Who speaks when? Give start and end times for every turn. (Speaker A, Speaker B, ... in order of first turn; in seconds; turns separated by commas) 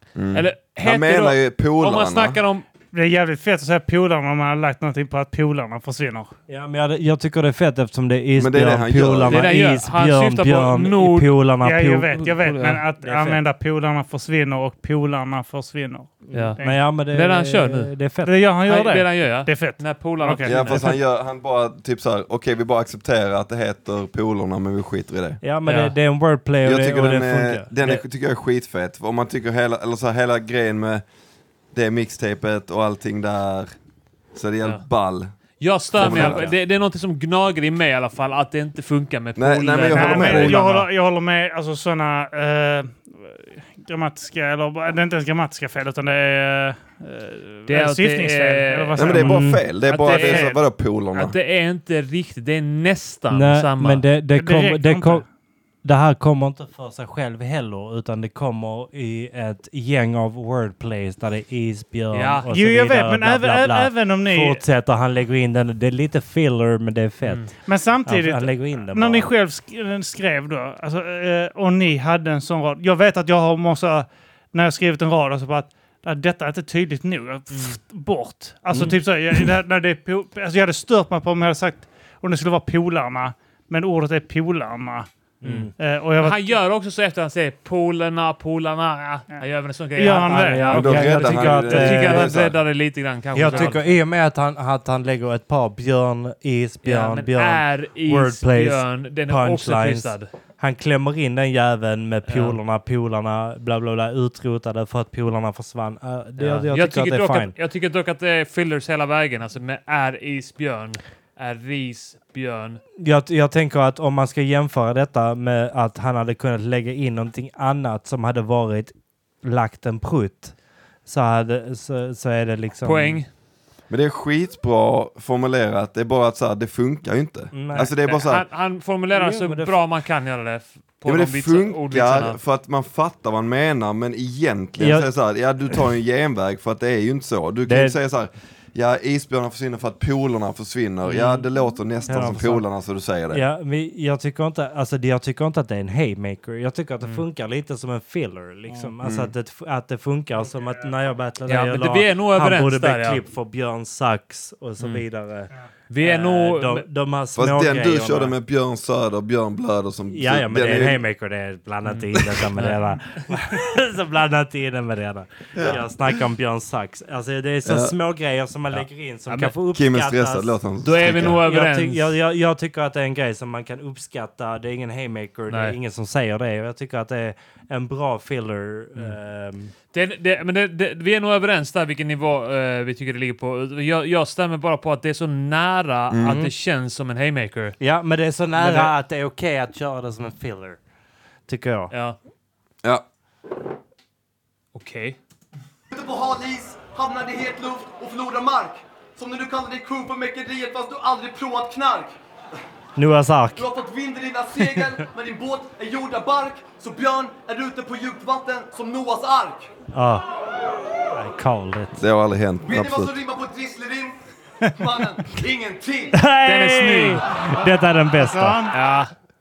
Speaker A: 0.1-2.4, Speaker B: 0.3-2.7, Speaker C: 2.9-6.3, Speaker D: 6.5-12.3, Speaker A: 8.3-9.5, Speaker B: 9.3-11.3, Speaker C: 11.6-16.9, Speaker B: 12.2-12.8, Speaker D: 13.0-13.4, Speaker D: 16.3-18.4, Speaker B: 16.3-18.0, Speaker C: 18.2-20.9, Speaker B: 18.6-21.0, Speaker A: 20.5-25.4, Speaker D: 25.4-28.0, Speaker B: 25.6-25.9, Speaker A: 26.6-31.0, Speaker A: 31.7-33.7, Speaker A: 34.3-35.3, Speaker B: 35.6-40.9, Speaker A: 35.9-36.5, Speaker D: 36.0-36.5, Speaker A: 39.4-40.6, Speaker C: 39.9-50.6, Speaker B: 47.7-50.6, Speaker A: 49.0-51.3, Speaker D: 49.2-49.6, Speaker B: 51.1-54.1, Speaker D: 53.3-55.2, Speaker C: 54.3-55.2, Speaker D: 55.8-67.5, Speaker B: 62.1-62.5, Speaker C: 62.5-64.6, Speaker B: 67.2-67.5, Speaker C: 67.6-85.1, Speaker D: 68.0-69.3, Speaker B: 77.5-77.8, Speaker D: 78.7-79.0, Speaker D: 85.4-85.7, Speaker B: 85.4-93.9, Speaker C: 85.8-86.5, Speaker C: 89.9-91.0, Speaker D: 90.2-92.4, Speaker A: 90.7-92.6, Speaker D: 93.3-107.5, Speaker C: 93.5-93.7, Speaker B: 96.8-100.3, Speaker B: 102.3-102.6, Speaker B: 106.4-112.8, Speaker D: 113.0-123.2, Speaker B: 122.8-123.3, Speaker A: 123.9-128.4, Speaker D: 127.5-127.9, Speaker B: 127.9-132.4, Speaker D: 129.1-129.8, Speaker A: 131.1-143.4, Speaker D: 134.8-135.1, Speaker D: 137.7-138.0, Speaker D: 141.1-141.4, Speaker D: 142.1-142.6, Speaker D: 143.3-158.3, Speaker A: 149.0-149.3, Speaker B: 151.5-153.2, Speaker B: 155.9-156.9, Speaker A: 157.3-161.0, Speaker D: 160.1-179.7, Speaker B: 161.8-162.9, Speaker A: 165.5-165.8, Speaker A: 167.6-167.9, Speaker B: 169.3-169.5, Speaker A: 169.7-171.4, Speaker B: 170.8-172.1, Speaker B: 175.5-175.8, Speaker B: 179.9-187.8, Speaker A: 186.1-186.5, Speaker D: 187.8-190.8, Speaker B: 188.6-188.9, Speaker D: 191.5-191.9, Speaker B: 191.9-192.2, Speaker B: 194.7-195.2, Speaker E: 195.9-202.1, Speaker D: 202.9-203.7, Speaker E: 203.6-209.7, Speaker D: 209.9-210.2, Speaker D: 211.1-212.0, Speaker A: 212.0-213.2, Speaker E: 212.6-214.2, Speaker E: 214.8-216.2, Speaker D: 216.1-218.6, Speaker B: 216.4-217.3, Speaker C: 217.6-218.8, Speaker B: 218.7-219.1